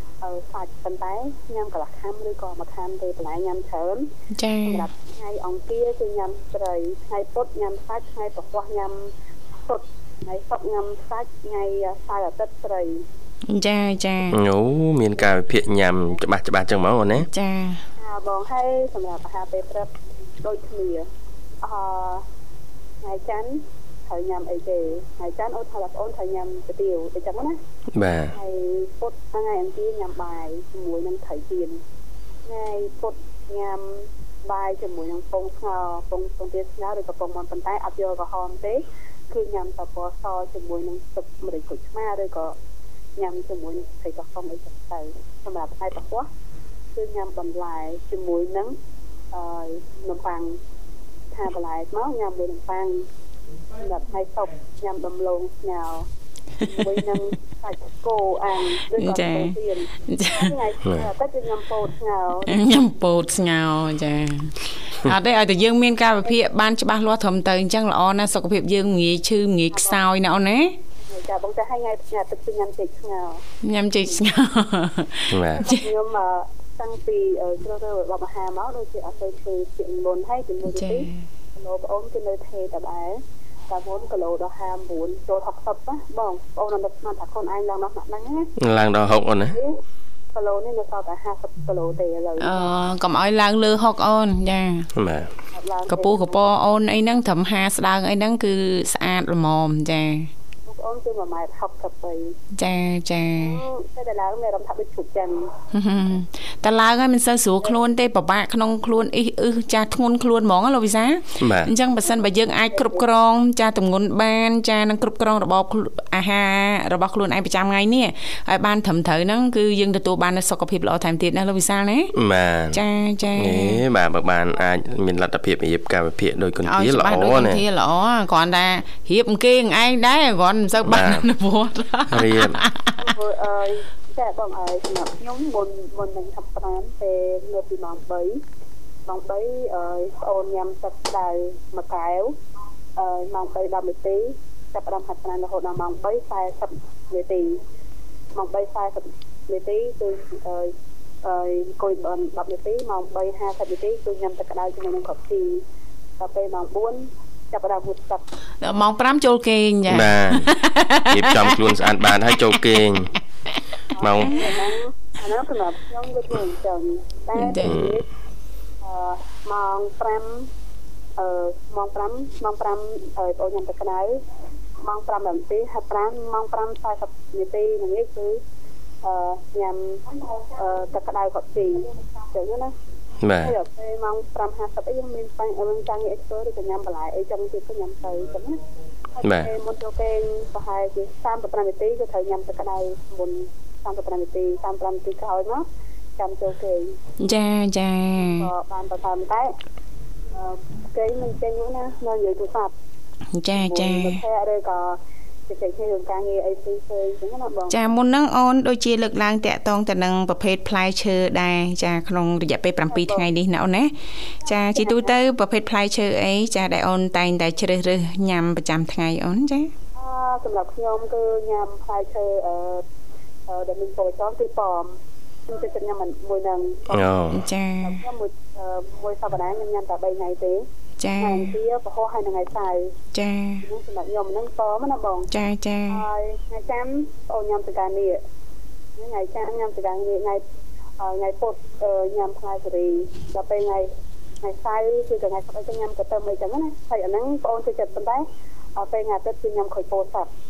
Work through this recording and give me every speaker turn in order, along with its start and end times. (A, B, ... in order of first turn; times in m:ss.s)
0:00.2-0:04.1 A
0:04.3-0:04.9 B
0:04.6-0:09.1 A
0:09.6-0:13.0 A
0:13.5-0:14.4 B
0:14.3-0:17.3 C
0:17.2-0:17.8 B
0:18.0-0:21.1 A
0:21.6-0:22.2 A
0:23.0-0:27.6 A
0:27.9-0:28.3 C
0:28.3-0:31.8 A
0:32.4-0:42.6 A
0:43.2-0:46.3 A
0:46.9-0:48.8 A
0:49.3-0:50.6 A
0:51.3-0:53.1 A
0:53.8-0:56.1 A
0:56.6-1:02.7 A
0:56.6-0:57.0 B
0:58.9-1:00.5 B
1:02.4-1:10.8 B
1:09.7-1:10.0 A
1:11.0-1:13.4 A
1:13.6-1:15.8 B
1:15.3-1:15.6 C
1:15.5-1:28.5 A
1:20.7-1:21.2 B
1:28.6-1:29.6 C
1:29.5-1:29.8 A
1:30.3-1:32.7 A
1:32.4-1:34.9 B
1:35.0-1:35.3 C
1:35.5-1:36.4 A
1:35.9-1:40.3 B
1:40.6-1:42.4 A
1:42.5-1:43.6 B
1:43.4-1:45.5 A
1:45.7-2:02.1 B
1:51.4-1:51.7 C
1:52.7-1:53.0 A
2:02.1-2:02.8 C
2:02.7-2:03.8 B
2:03.3-2:07.6 C
2:06.6-2:13.0 B
2:10.9-2:11.3 C
2:12.1-2:12.6 C
2:13.0-2:18.4 A
2:19.1-2:22.3 A
2:23.0-2:27.6 A
2:28.3-2:35.6 A
2:36.2-2:38.2 A
2:38.6-2:42.8 B
2:39.9-2:40.5 C
2:41.1-2:43.1 C
2:43.9-2:48.0 A
2:44.0-2:44.4 C
2:44.2-2:44.5 B
2:47.4-2:47.8 B
2:47.6-2:48.0 C
2:48.8-2:50.5 A
2:51.2-2:54.2 A
2:54.8-2:58.4 A
2:59.0-3:02.7 A
3:03.2-3:03.6 C
3:03.3-3:08.6 A
3:09.2-3:15.6 A
3:09.2-3:09.5 C
3:16.2-3:17.0 A
3:17.2-3:18.5 B
3:18.2-3:19.5 A
3:20.3-3:22.7 A
3:23.3-3:24.2 B
3:23.5-3:27.8 A
3:27.7-3:39.7 B
3:32.9-3:33.3 A
3:34.4-3:35.2 A
3:40.0-3:42.8 A
3:43.5-3:47.2 A
3:46.9-3:47.4 C
3:47.3-3:48.0 B
3:47.8-3:50.6 A
3:51.0-3:51.5 B
3:51.2-3:53.0 A
3:53.1-3:53.6 B
3:53.6-3:55.3 A
3:55.3-3:56.0 B
3:55.9-3:58.2 A
3:59.0-4:00.4 A
4:01.0-4:03.9 A
4:04.4-4:10.3 A